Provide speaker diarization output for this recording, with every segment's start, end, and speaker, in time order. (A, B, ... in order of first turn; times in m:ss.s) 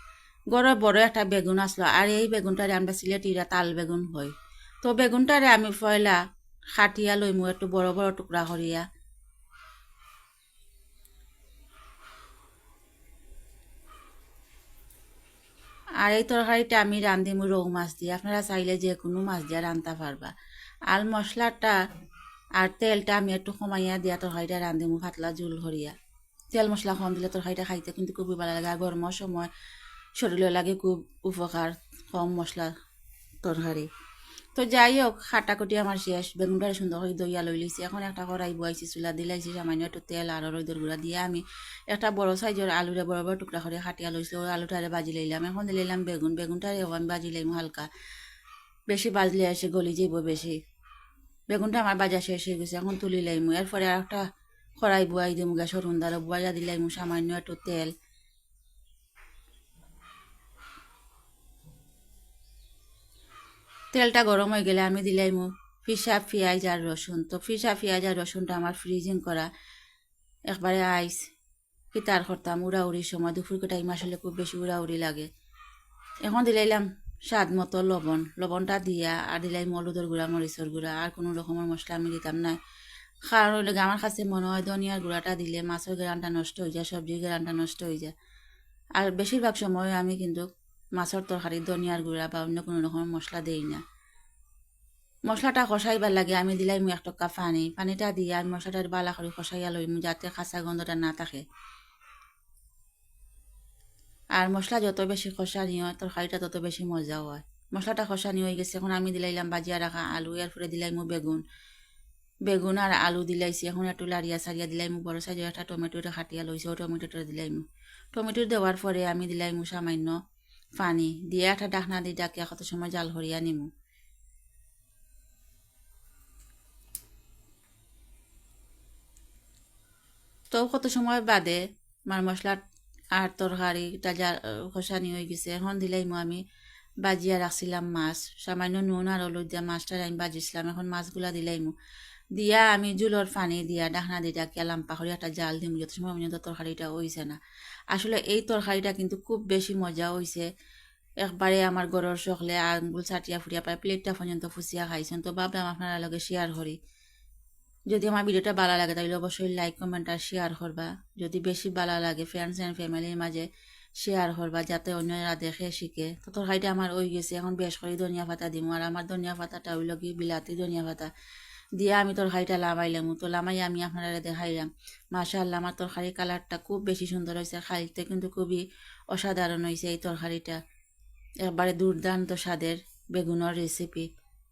0:00.5-0:06.2 A
0:06.8-0:08.8 A
0:16.0-0:20.3 A
0:20.9-0:21.8 A
0:22.6-0:25.9 A
0:26.5-0:29.5 A
0:30.2-0:32.7 A
0:33.4-0:33.9 A
0:34.6-0:47.9 A
0:48.9-0:50.6 A
0:51.5-0:54.2 A
0:54.8-0:57.9 A
1:03.9-1:09.5 A
1:10.5-1:11.2 A
1:11.9-1:15.3 A
1:16.2-1:22.6 A
1:23.3-1:28.1 A
1:29.0-1:30.4 A
1:31.0-1:33.8 A
1:35.3-1:41.4 A
1:44.4-1:51.4 A
1:52.5-2:00.2 A
2:00.8-2:03.7 A
2:10.5-2:12.6 A
2:13.1-2:16.4 A
2:17.0-2:21.7 A
2:22.4-2:27.4 A
2:27.9-2:30.5 A
2:31.2-2:36.8 A
2:37.9-2:43.4 A
2:44.0-2:51.1 A
2:51.8-3:00.6 A
3:01.5-3:04.1 A